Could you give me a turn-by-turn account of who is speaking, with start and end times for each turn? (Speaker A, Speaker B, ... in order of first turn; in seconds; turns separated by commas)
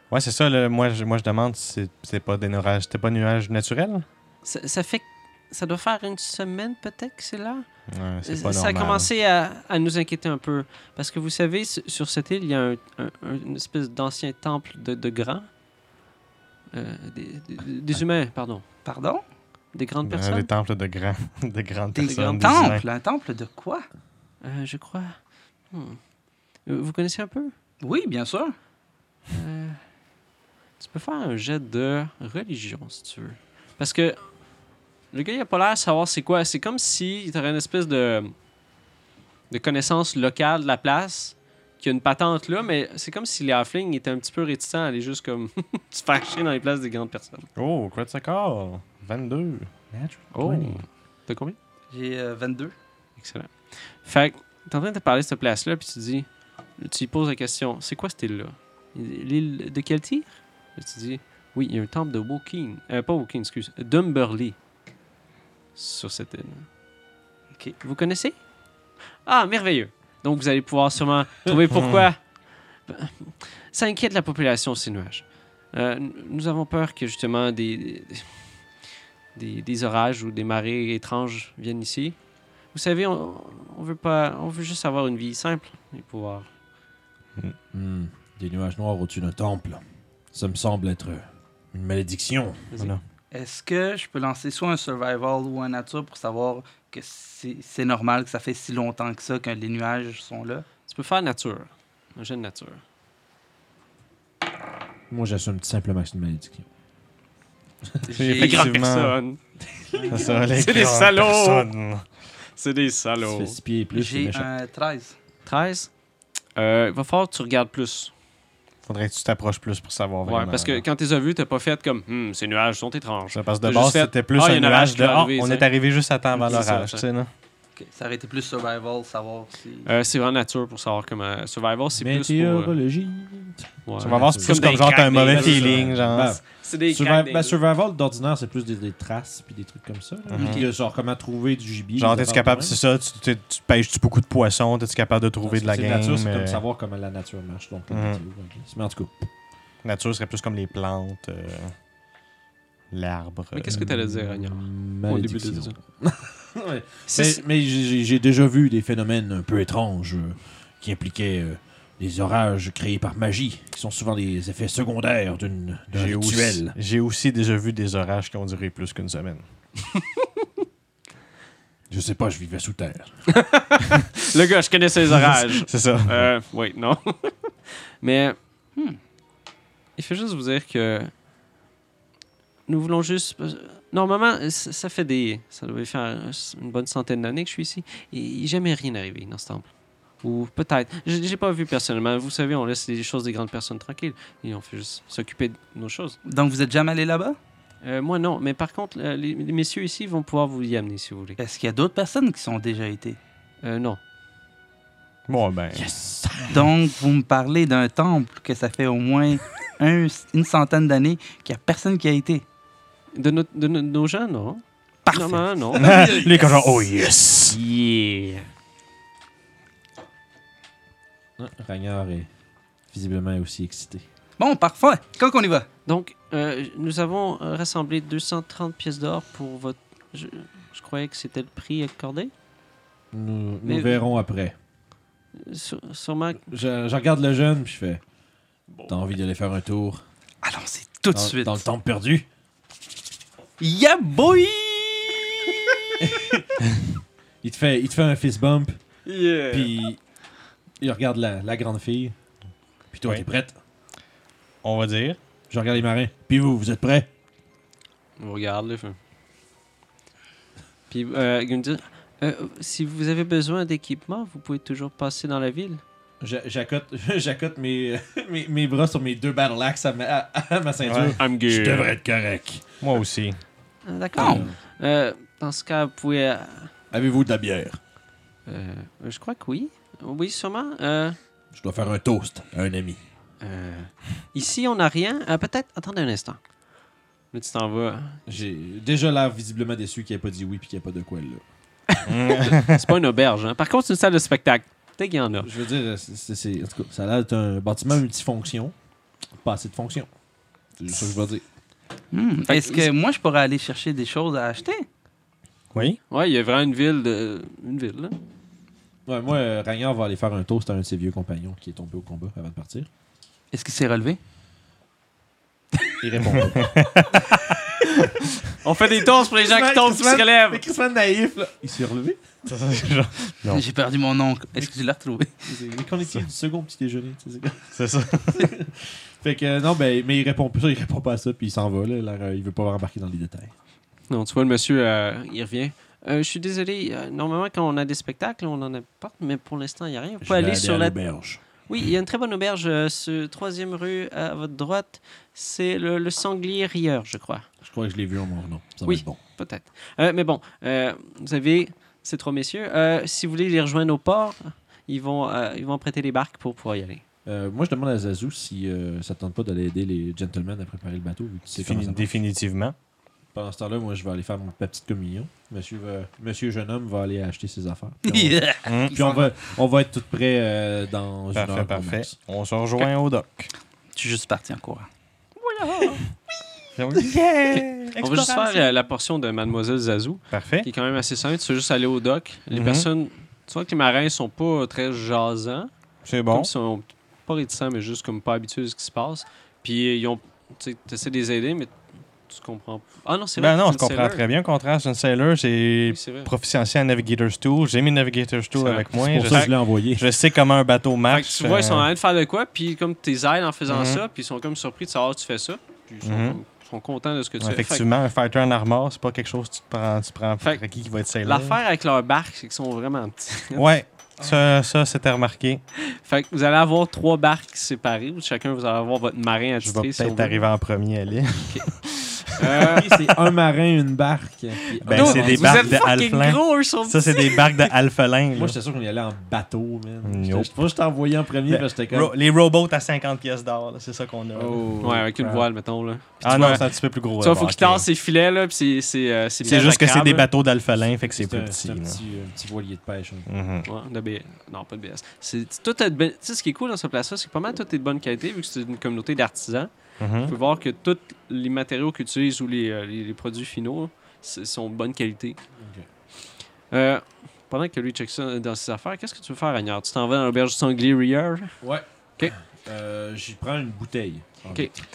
Speaker A: 0.1-4.1, Speaker B: 4.5-7.7, Speaker A: 7.9-9.1, Speaker B: 8.2-15.5, Speaker B: 16.7-18.6, Speaker C: 18.9-19.2, Speaker B: 19.7-20.5, Speaker A: 20.1-22.9, Speaker C: 22.0-23.9, Speaker B: 22.0-22.6, Speaker B: 24.4-25.2, Speaker B: 25.7-26.0, Speaker B: 26.6-27.5, Speaker C: 27.8-28.5, Speaker B: 29.3-29.8, Speaker B: 30.8-34.2, Speaker B: 35.1-38.3, Speaker B: 39.5-47.5, Speaker A: 47.6-49.7, Speaker D: 49.9-50.8, Speaker B: 50.3-51.6, Speaker C: 51.9-52.7, Speaker B: 53.2-56.3, Speaker B: 56.8-64.6, Speaker B: 65.8-66.7, Speaker B: 67.8-68.4, Speaker B: 69.3-72.2, Speaker A: 71.7-72.0, Speaker B: 72.9-78.3, Speaker B: 79.3-82.2, Speaker B: 82.7-86.5, Speaker D: 87.7-89.8, Speaker D: 90.3-92.7, Speaker C: 93.3-100.7, Speaker B: 100.9-102.8, Speaker D: 105.1-106.7, Speaker C: 108.1-108.7, Speaker A: 108.1-109.2, Speaker B: 108.4-109.4, Speaker D: 109.8-110.4, Speaker A: 110.1-112.0, Speaker B: 110.2-111.7, Speaker B: 112.5-113.5, Speaker D: 113.2-114.5, Speaker C: 113.9-115.2, Speaker B: 115.5-115.9, Speaker B: 116.6-118.1, Speaker A: 118.8-120.8, Speaker B: 120.2-125.7, Speaker A: 123.3-127.3, Speaker B: 126.3-127.0, Speaker C: 127.8-129.9, Speaker B: 129.9-132.8, Speaker D: 132.0-142.8, Speaker B: 133.9-135.9, Speaker A: 134.0-136.4, Speaker B: 136.5-137.6, Speaker A: 140.3-140.7, Speaker C: 140.3-140.7, Speaker A: 142.0-146.6, Speaker D: 145.4-149.3, Speaker A: 147.9-148.2, Speaker A: 149.8-151.7, Speaker A: 152.9-153.9, Speaker B: 153.5-155.8, Speaker D: 153.7-166.8, Speaker B: 157.1-157.4, Speaker A: 165.9-169.4, Speaker D: 171.9-173.3, Speaker B: 173.3-178.4, Speaker A: 175.3-176.3, Speaker B: 180.0-181.1, Speaker B: 182.7-189.7, Speaker B: 190.2-196.2, Speaker C: 196.2-197.4, Speaker B: 197.8-201.4, Speaker C: 201.4-203.2, Speaker B: 203.6-204.0, Speaker A: 205.3-205.9, Speaker D: 205.7-206.7, Speaker C: 206.5-212.4, Speaker B: 213.2-215.9, Speaker C: 215.1-216.4, Speaker A: 215.8-217.6, Speaker B: 217.5-218.5, Speaker D: 221.4-222.3, Speaker D: 222.9-224.1, Speaker C: 224.4-225.7, Speaker B: 225.9-232.3, Speaker D: 233.1-234.6, Speaker B: 233.7-234.0, Speaker B: 235.3-236.5, Speaker D: 236.4-238.0, Speaker B: 238.7-239.0, Speaker D: 238.9-240.0, Speaker C: 240.4-241.7, Speaker D: 241.1-242.3, Speaker C: 243.6-246.0, Speaker D: 246.0-246.6, Speaker D: 247.4-248.8, Speaker B: 249.1-249.7, Speaker D: 249.5-250.0, Speaker D: 250.8-252.2, Speaker D: 252.9-253.6, Speaker A: 254.6-255.2, Speaker D: 255.5-257.1, Speaker B: 258.2-259.0, Speaker B: 260.9-265.8, Speaker D: 266.2-272.6, Speaker A: 270.8-271.2, Speaker B: 271.2-271.9, Speaker A: 272.8-273.4, Speaker B: 273.9-276.7, Speaker D: 274.2-274.6, Speaker C: 274.2-274.5, Speaker D: 276.9-277.8, Speaker B: 278.5-281.2, Speaker D: 281.5-283.0, Speaker B: 283.4-286.4, Speaker B: 287.3-288.2, Speaker D: 288.3-291.4, Speaker B: 291.9-295.5, Speaker A: 292.1-292.9, Speaker D: 295.4-298.7, Speaker D: 299.4-300.1, Speaker D: 300.8-301.4, Speaker C: 302.1-304.9, Speaker B: 302.5-302.9, Speaker A: 305.7-306.0, Speaker B: 306.1-308.2, Speaker D: 309.1-312.9, Speaker C: 313.5-314.2, Speaker D: 316.0-316.7, Speaker A: 316.3-317.4, Speaker B: 318.6-320.6, Speaker D: 319.1-322.2, Speaker A: 322.5-323.6, Speaker C: 323.5-325.4, Speaker D: 325.4-327.7, Speaker A: 327.7-328.5, Speaker D: 328.3-333.5, Speaker B: 334.1-341.0, Speaker D: 340.2-341.4, Speaker B: 341.7-347.5, Speaker D: 347.6-349.2, Speaker B: 348.9-357.0, Speaker D: 357.3-362.1, Speaker A: 361.6-362.8, Speaker D: 363.3-372.1, Speaker C: 368.1-369.4, Speaker A: 368.7-369.1, Speaker A: 371.3-373.5, Speaker C: 374.0-374.9, Speaker C: 375.4-376.0, Speaker A: 376.8-378.6, Speaker B: 377.6-385.7, Speaker A: 380.3-380.7, Speaker A: 382.5-382.9, Speaker A: 386.1-386.5, Speaker B: 386.3-391.7, Speaker B: 392.3-394.2, Speaker A: 393.4-401.9, Speaker B: 395.9-396.3, Speaker B: 398.6-399.5, Speaker D: 398.9-400.1, Speaker B: 401.1-407.9, Speaker A: 403.7-404.0, Speaker A: 406.0-406.4, Speaker A: 407.4-411.6, Speaker B: 411.2-413.7, Speaker A: 413.6-415.6, Speaker B: 415.8-420.4, Speaker A: 419.6-423.1, Speaker B: 422.4-422.9, Speaker D: 422.6-425.9, Speaker A: 424.8-428.6, Speaker B: 424.9-427.7, Speaker D: 428.3-432.1, Speaker A: 430.0-430.6, Speaker A: 431.5-435.4, Speaker D: 434.3-435.1, Speaker B: 434.8-440.3, Speaker A: 436.2-437.9, Speaker D: 436.3-436.6, Speaker A: 439.4-442.0, Speaker D: 441.1-443.3, Speaker A: 443.3-443.7, Speaker B: 443.6-449.7, Speaker A: 450.0-450.3, Speaker B: 450.2-455.4, Speaker D: 455.6-455.9, Speaker B: 456.7-461.6, Speaker D: 461.6-464.7